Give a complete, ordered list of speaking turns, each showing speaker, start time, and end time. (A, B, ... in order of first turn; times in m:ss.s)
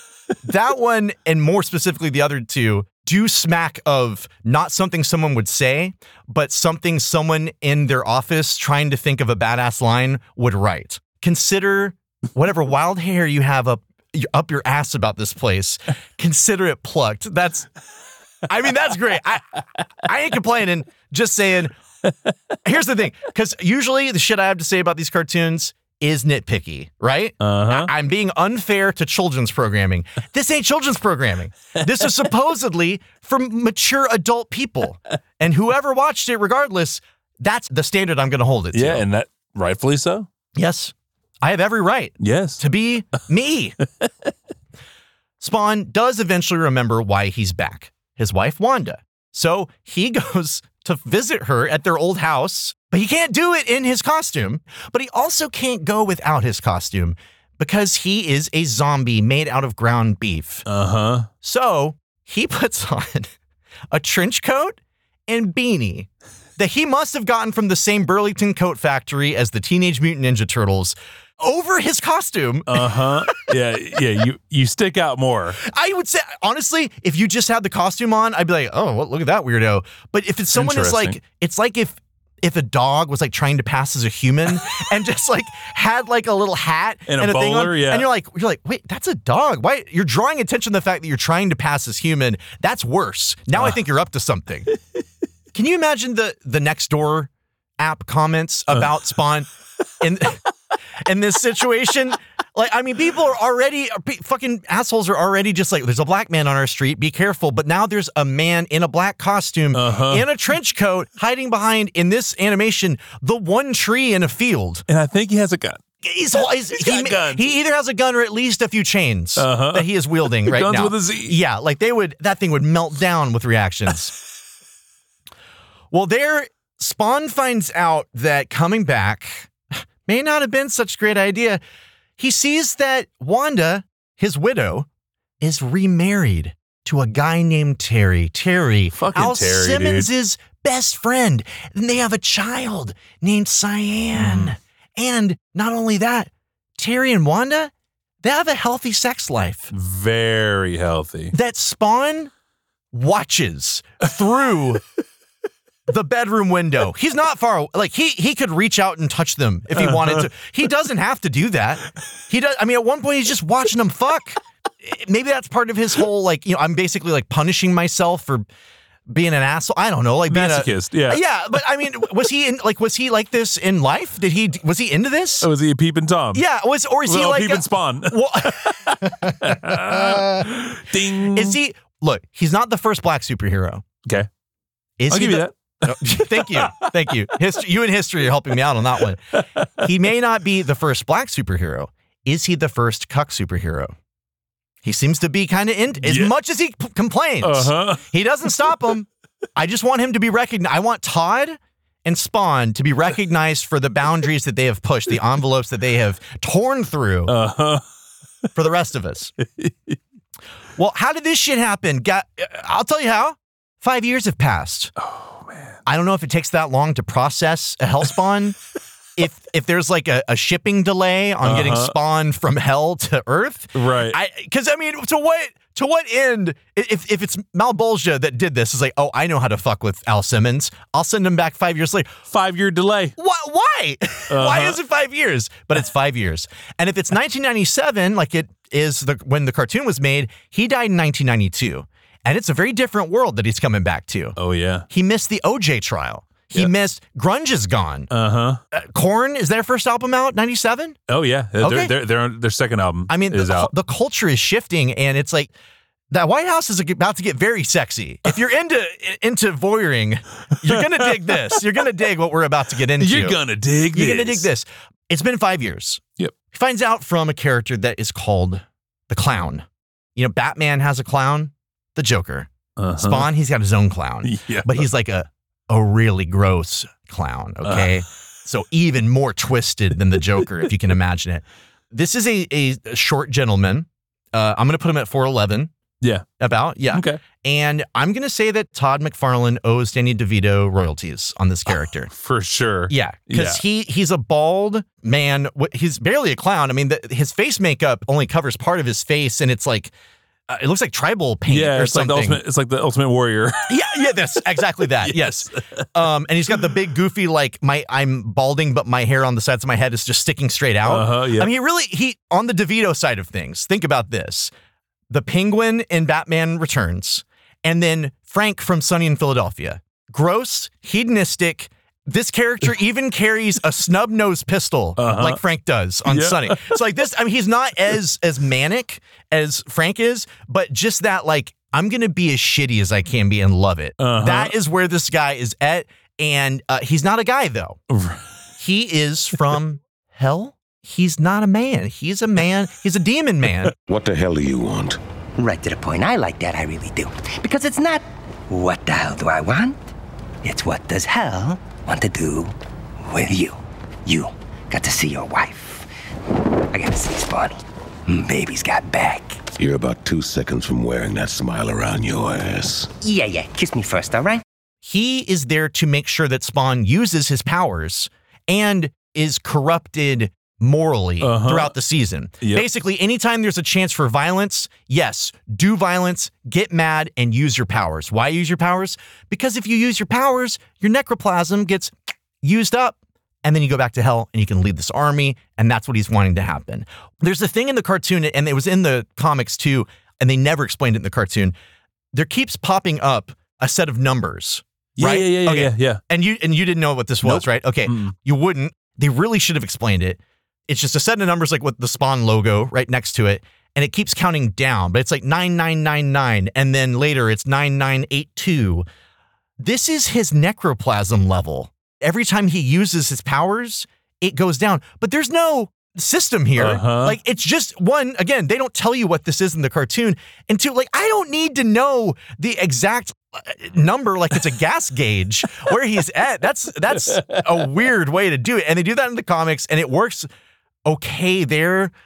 0:00.4-0:17.7 A
0:18.5-0:21.7 A
0:22.6-0:39.0 A
0:27.4-0:27.9 B
0:38.7-0:40.3 B
0:40.6-0:43.8 A
0:42.2-0:42.6 B
0:45.4-1:00.6 A
1:00.7-1:01.3 B
1:01.4-1:03.3 A
1:03.9-1:13.4 A
1:12.7-1:15.6 B
1:15.6-1:34.7 A
1:20.5-1:21.2 B
1:27.1-1:28.1 B
1:35.5-1:39.5 A
1:40.0-1:40.4 A
1:41.0-1:54.8 A
1:49.7-1:50.3 B
1:54.9-1:55.8 B
1:56.0-2:04.1 A
1:56.7-1:57.5 B
1:59.4-2:01.4 B
2:05.9-2:09.5 A
2:10.0-2:11.6 A
2:12.2-2:14.9 A
2:15.4-2:27.7 A
2:18.9-2:20.1 B
2:24.1-2:24.6 B
2:28.2-2:29.7 A
2:29.7-2:31.3 B
2:31.3-2:32.3 A
2:32.9-2:34.8 A
2:35.9-2:48.5 A
2:39.8-2:40.2 B
2:49.1-2:55.5 A
2:50.3-2:51.2 B
2:55.4-2:56.4 B
2:56.3-3:00.6 A
2:57.0-3:01.6 B
3:01.2-3:03.8 A
3:05.0-3:13.9 A
3:05.1-3:06.9 B
3:09.4-3:09.7 B
3:14.8-3:27.3 A
3:16.0-3:16.3 B
3:17.4-3:18.0 B
3:27.3-3:27.8 B
3:28.6-3:29.3 A
3:29.4-3:30.0 B
3:30.8-3:34.9 A
3:35.0-3:35.8 B
3:35.9-3:38.6 A
3:39.2-3:52.1 A
3:41.4-3:41.9 B
3:43.8-3:44.2 B
3:52.3-3:53.2 B
3:53.2-4:04.4 A
3:54.3-3:54.8 B
4:04.4-4:04.9 B
4:04.9-4:08.1 A
4:08.1-4:08.6 B
4:08.7-4:11.0 A
4:11.1-4:13.7 B
4:11.6-4:11.9 A
4:13.1-4:15.5 A
4:16.1-4:23.4 A
4:20.6-4:21.6 B
4:23.0-4:24.5 B
4:23.9-4:45.7 A
4:32.8-4:33.3 B
4:34.2-4:34.8 B
4:37.6-4:37.9 B
4:46.0-4:46.3 B
4:46.4-4:52.1 A
4:46.9-4:47.2 B
4:52.1-4:53.6 B
4:52.9-4:59.9 A
5:00.5-5:02.4 A
5:01.5-5:03.7 B
5:03.7-5:14.5 A
5:05.0-5:05.8 B
5:10.8-5:11.5 B
5:15.1-5:37.8 A
5:25.0-5:25.4 B
5:26.1-5:26.8 B
5:34.0-5:34.5 B
5:37.9-5:38.2 B
5:38.6-5:43.7 A
5:43.9-5:45.0 C
5:45.4-5:49.8 D
5:50.4-5:52.5 D
5:53.1-5:55.9 D
5:56.7-5:59.4 D
5:59.6-6:02.9 C
6:03.0-6:04.4 D
6:04.8-6:31.5 A
6:11.2-6:11.7 B
6:32.1-6:48.8 A
6:35.0-6:36.0 B
6:37.2-6:38.1 B
6:49.6-7:10.3 A
6:56.6-6:57.2 B
7:07.0-7:07.4 B
7:10.9-7:11.9 A